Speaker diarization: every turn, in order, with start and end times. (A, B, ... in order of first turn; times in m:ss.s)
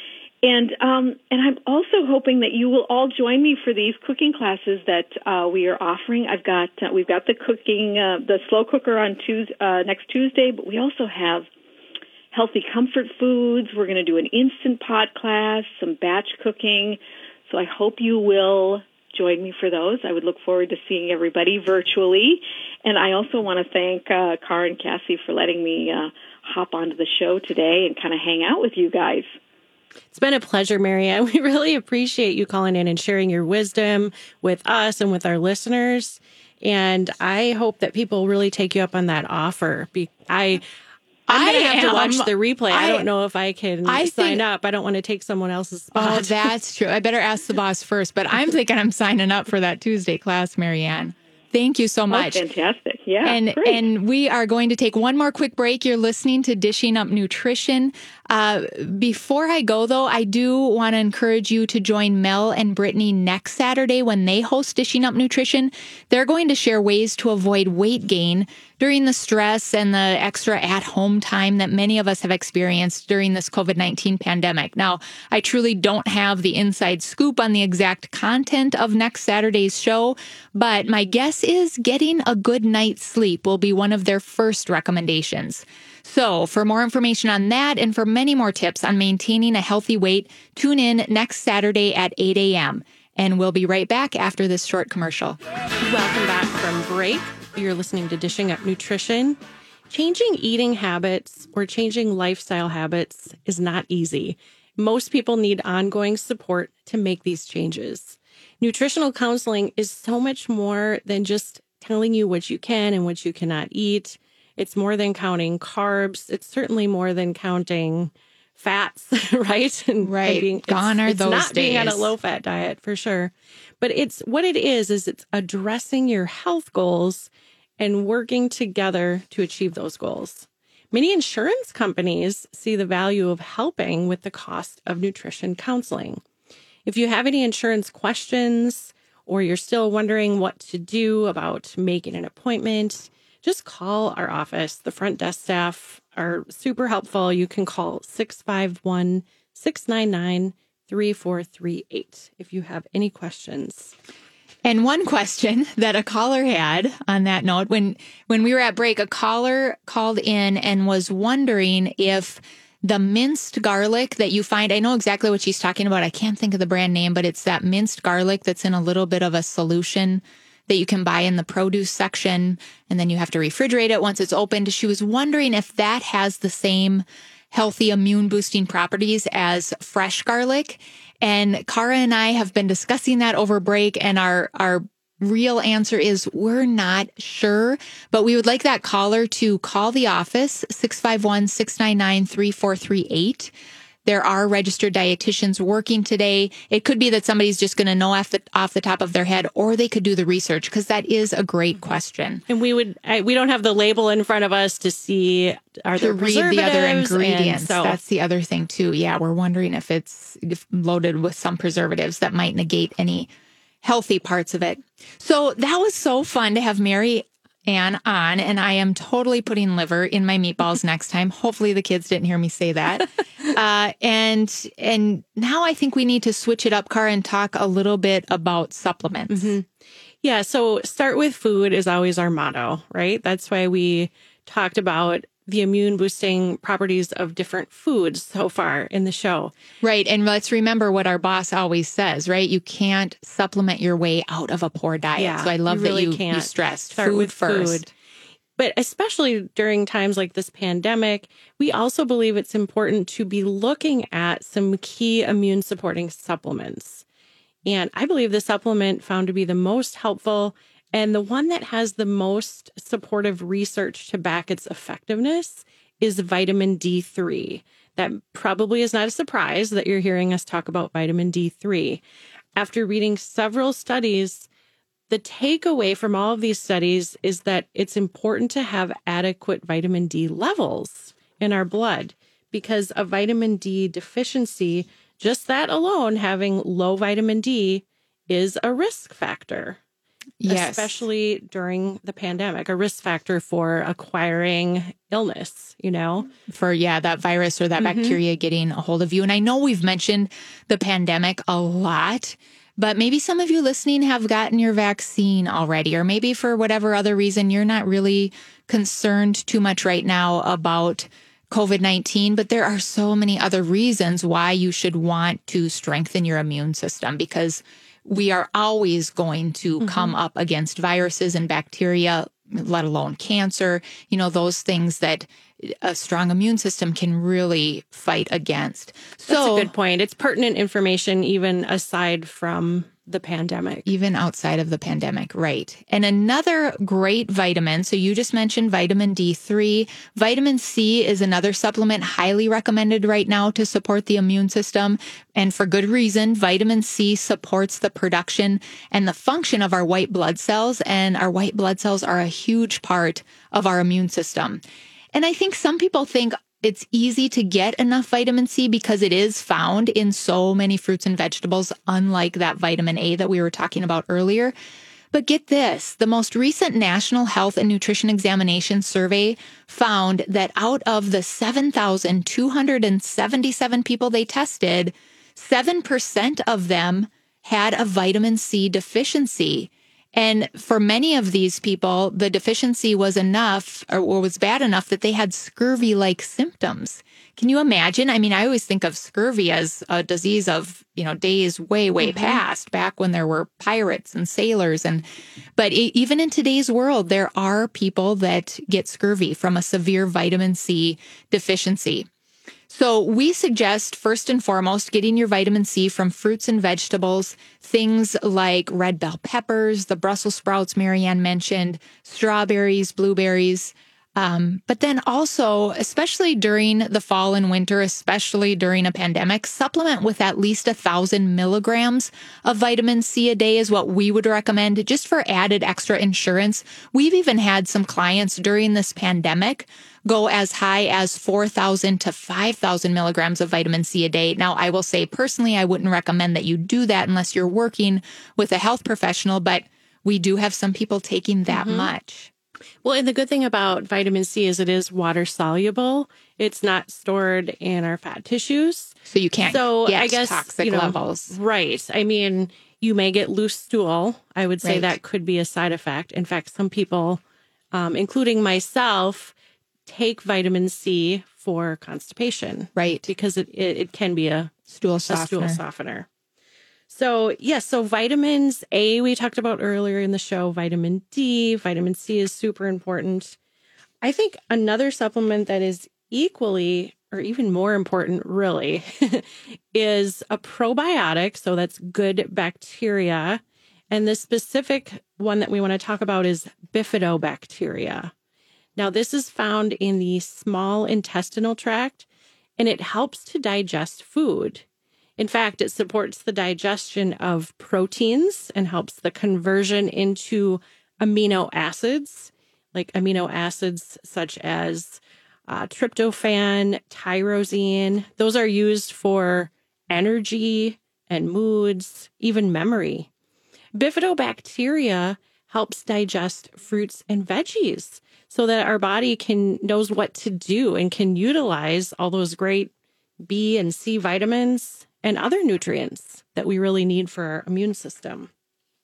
0:00.4-0:11.5 A
0:12.3-0:29.2 A
0:30.1-0:40.6 B
0:41.3-0:43.1 C
0:41.3-0:46.5 B
0:43.8-0:44.4 C
0:45.9-0:52.4 C
0:52.1-0:53.8 A
0:53.2-1:35.4 C
1:35.8-1:39.4 B
1:39.9-2:16.2 B
2:00.0-2:02.1 C
2:16.8-2:33.9 B
2:34.6-3:13.5 C
3:14.0-3:22.4 C
3:22.5-3:28.0 B
3:25.9-3:33.3 C
3:33.8-3:49.6 C
3:49.3-3:49.6 B
3:50.2-3:59.5 B
3:59.8-4:07.8 C
4:05.2-4:07.9 B
4:08.6-4:17.0 B
4:17.6-4:32.0 B
4:32.6-4:34.5 B
4:35.1-4:49.8 B
4:50.4-4:51.0 C
4:50.5-4:56.3 B
4:56.5-5:29.7 C
4:57.8-4:58.2 B
5:19.8-5:20.1 B
5:29.3-5:33.8 B
5:33.8-5:54.6 C
5:55.1-6:04.5 C
6:05.1-6:35.0 C
6:32.0-6:32.4 B
6:35.6-6:42.1 C
6:42.7-7:22.3 C
7:21.5-7:21.9 B
7:22.8-7:39.3 B
7:29.1-7:31.4 C
7:34.6-7:35.0 C
7:39.8-7:44.6 B
7:42.8-7:43.1 C
7:44.7-7:45.6 C
7:45.1-7:46.1 B
7:46.9-7:53.4 B
7:54.0-8:08.1 B
8:08.8-8:12.0 B
8:12.6-8:14.6 B
8:15.2-8:33.1 B
8:33.7-8:42.7 B
8:43.2-8:48.3 B